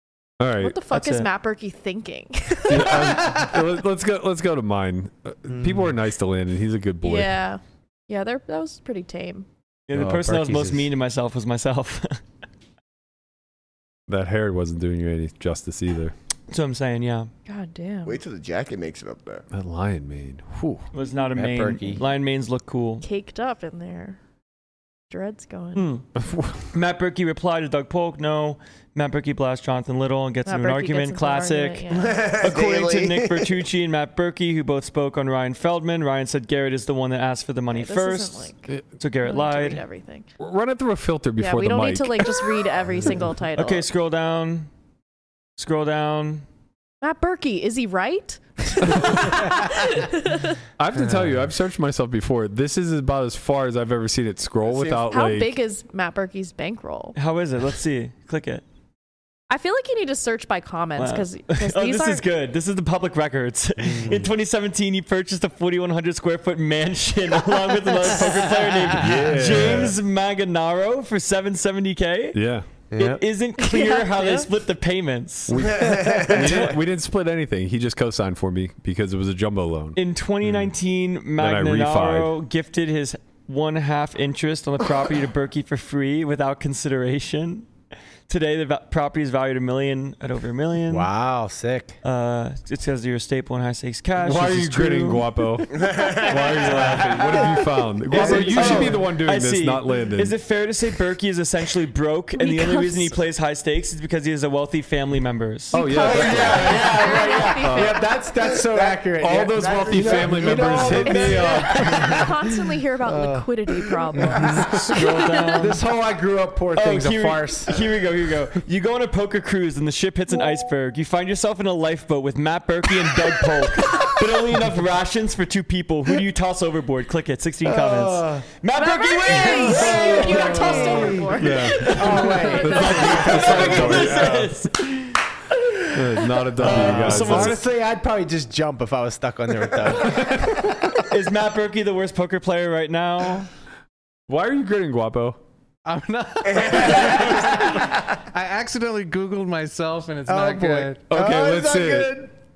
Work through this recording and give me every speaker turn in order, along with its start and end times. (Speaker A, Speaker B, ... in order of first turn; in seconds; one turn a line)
Speaker A: 0.4-0.8
Speaker B: 0.6-2.9
Speaker C: 0.9-1.3
Speaker A: 2.7-7.4
Speaker D: 3.0-3.4
Speaker D: 5.5-5.9
Speaker B: 7.0-9.5
Speaker C: 9.9-12.2
Speaker A: 10.0-10.5
Speaker D: 10.1-10.9
Speaker A: 14.1-16.1
Speaker C: 16.5-17.3
Speaker B: 17.5-18.2
Speaker E: 18.1-19.5
Speaker A: 19.5-20.9
Speaker C: 20.9-23.1
Speaker D: 21.4-22.0
Speaker B: 23.0-24.2
Speaker B: 25.1-26.0
Speaker C: 25.8-26.1
Speaker A: 26.2-26.7
Speaker C: 26.7-39.8
Speaker B: 30.5-32.3
Speaker E: 31.9-33.6
Speaker B: 37.7-40.3
Speaker A: 40.4-42.5
Speaker B: 41.4-43.9
Speaker C: 43.6-44.7
Speaker C: 45.6-46.5
Speaker B: 47.0-50.6
Speaker A: 49.0-49.5
Speaker A: 50.8-55.5
Speaker B: 55.1-57.2
Speaker C: 57.2-58.6
Speaker B: 59.5-62.3
Speaker C: 61.0-72.4
Speaker D: 63.8-64.2
Speaker A: 68.9-70.0
Speaker A: 72.3-72.7
Speaker D: 72.9-73.2
Speaker C: 72.9-75.7
Speaker B: 73.6-74.5
Speaker A: 75.5-80.7
Speaker E: 75.6-76.7
Speaker D: 75.9-76.5
Speaker C: 76.3-76.7
Speaker C: 80.0-87.7
Speaker A: 81.4-82.3
Speaker C: 88.3-91.1
Speaker D: 90.8-92.0
Speaker C: 92.0-95.6
Speaker A: 94.2-100.4
Speaker E: 95.7-97.4
Speaker C: 96.7-97.4
Speaker D: 97.2-99.0
Speaker E: 98.0-99.0
Speaker C: 98.1-107.5
Speaker B: 102.4-103.2
Speaker A: 105.7-107.0
Speaker B: 105.7-108.2
Speaker D: 106.0-112.2
Speaker E: 106.0-107.5
Speaker A: 107.6-108.0
Speaker E: 108.4-111.2
Speaker A: 109.2-112.2
Speaker B: 110.9-115.7
Speaker D: 113.0-117.7
Speaker C: 114.6-115.8
Speaker C: 116.8-135.2
Speaker D: 127.6-128.4
Speaker B: 128.8-133.8
Speaker D: 129.3-134.4
Speaker A: 131.4-134.6
Speaker A: 135.9-137.6
Speaker C: 136.6-137.6
Speaker D: 136.6-140.9
Speaker C: 141.0-143.5
Speaker A: 144.3-145.4
Speaker F: 145.8-151.1
Speaker E: 146.4-147.8
Speaker D: 150.3-152.3
Speaker A: 151.1-152.2
Speaker E: 151.2-151.6